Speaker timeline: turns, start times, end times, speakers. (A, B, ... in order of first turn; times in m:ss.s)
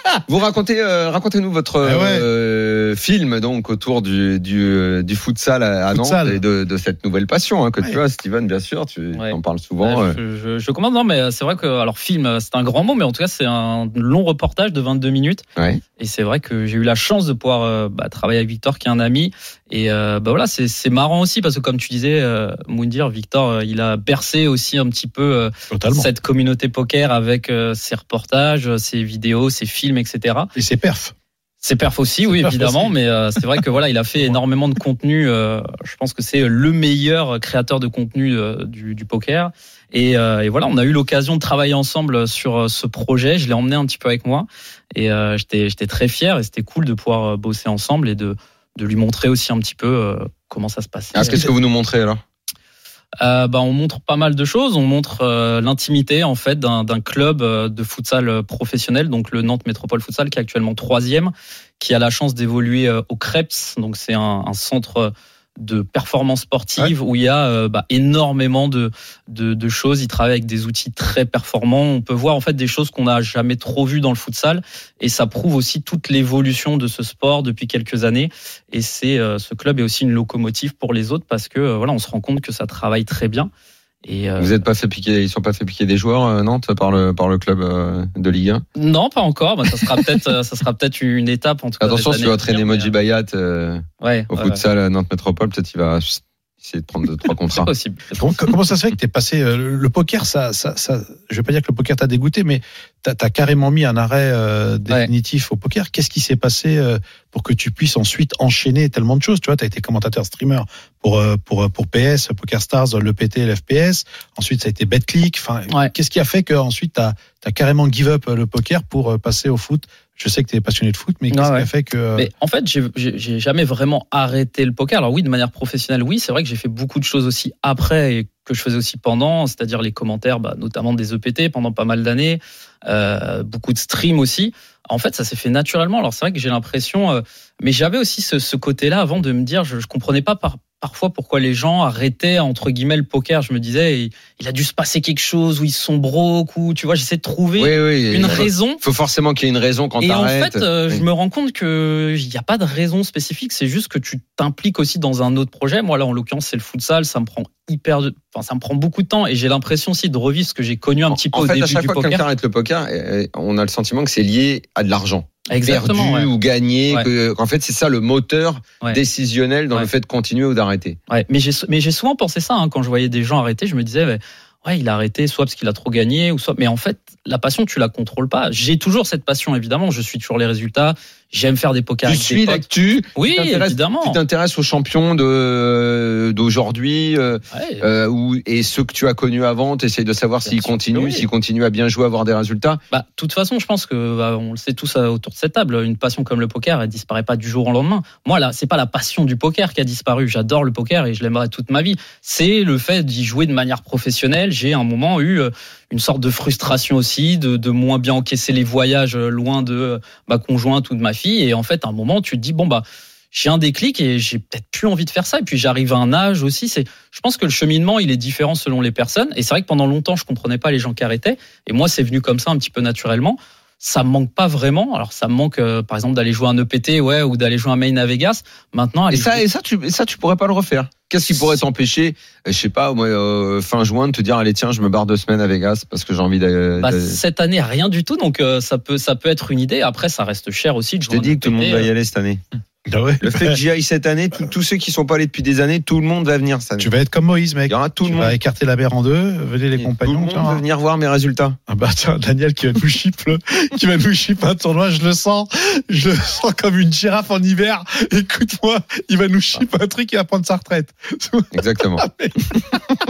0:00.3-0:10.2 A
0:01.8-0:02.3 B
0:05.9-0:06.4 B
0:09.1-0:15.4 C
0:15.6-0:15.8 A
0:16.0-0:30.5 C
0:25.7-0:26.1 B
0:30.5-0:31.1 B
0:31.6-0:51.4 C
0:32.2-0:33.0 B
0:51.1-0:52.2 A
0:53.2-1:23.5 C
1:24.0-1:24.6 C
1:24.4-1:28.6 A
1:28.8-1:32.9 C
1:31.8-1:37.7 A
1:34.0-1:34.6 C
1:37.5-1:38.4 C
1:38.1-2:02.3 B
2:01.3-2:28.8 C
2:27.6-2:31.0 A
2:30.0-2:42.2 C
2:41.1-2:51.0 A
2:45.5-2:46.3 C
2:51.1-3:04.2 C
3:02.0-3:12.8 A
3:07.5-3:07.8 C
3:10.4-3:11.2 C
3:12.9-3:49.4 C
3:49.1-3:57.2 A
3:56.8-4:01.9 C
4:01.1-4:02.4 A
4:02.8-4:03.6 B
4:03.2-4:06.9 A
4:06.8-4:10.6 B
4:07.7-4:08.3 A
4:09.8-4:11.6 A
4:11.7-4:22.8 B
4:21.5-4:22.0 A